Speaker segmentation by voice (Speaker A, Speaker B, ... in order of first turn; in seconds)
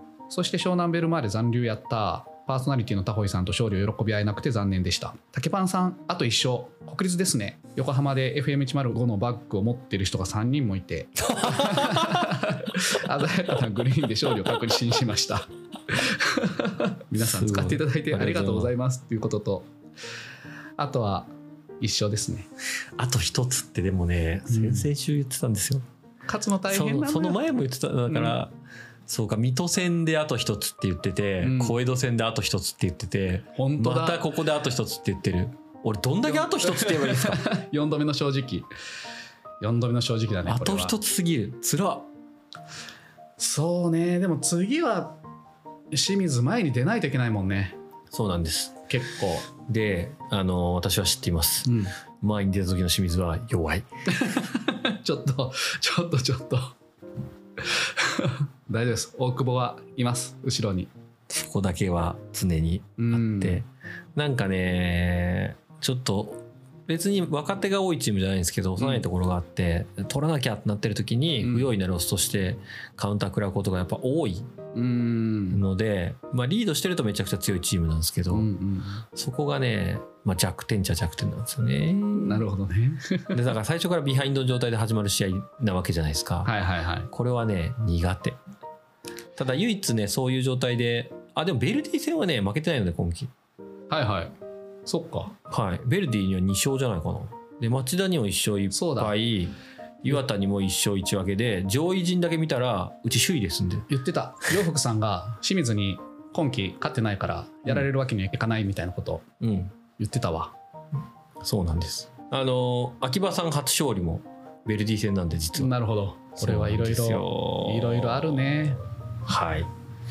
Speaker A: 0.3-19.7, 20.8-21.3, 21.8-22.5, 24.5-24.9, 26.3-27.4, 28.1-28.4, 31.4-31.8, 33.5-34.3, 36.3-38.7, 39.6-40.9, 43.4-45.1, 45.9-47.8, 48.9-49.5, 51.6-51.9, 54.1-56.7, 57.6-60.9, 63.0-63.6, 71.4-71.7, 74.7-75.6, 78.3-79.0, 82.1-83.4, 86.4-87.1, 93.9-94.3, 94.8-95.3, 98.7-99.1, 103.9-109.2, 110.0-110.5, 115.6-118.8
Speaker B: 11.2-12.4, 17.2-18.7, 22.9-25.8, 26.7-28.5, 29.1-37.5, 40.5-42.1, 48.1-48.8, 49.6-53.9, 61.3-74.5, 75.5-78.5, 79.1-82.5, 83.3-86.5, 87.1-88.4, 89.4-93.3, 95.5-103.9, 109.4-109.7, 111.4-115.7, 116.4-119.7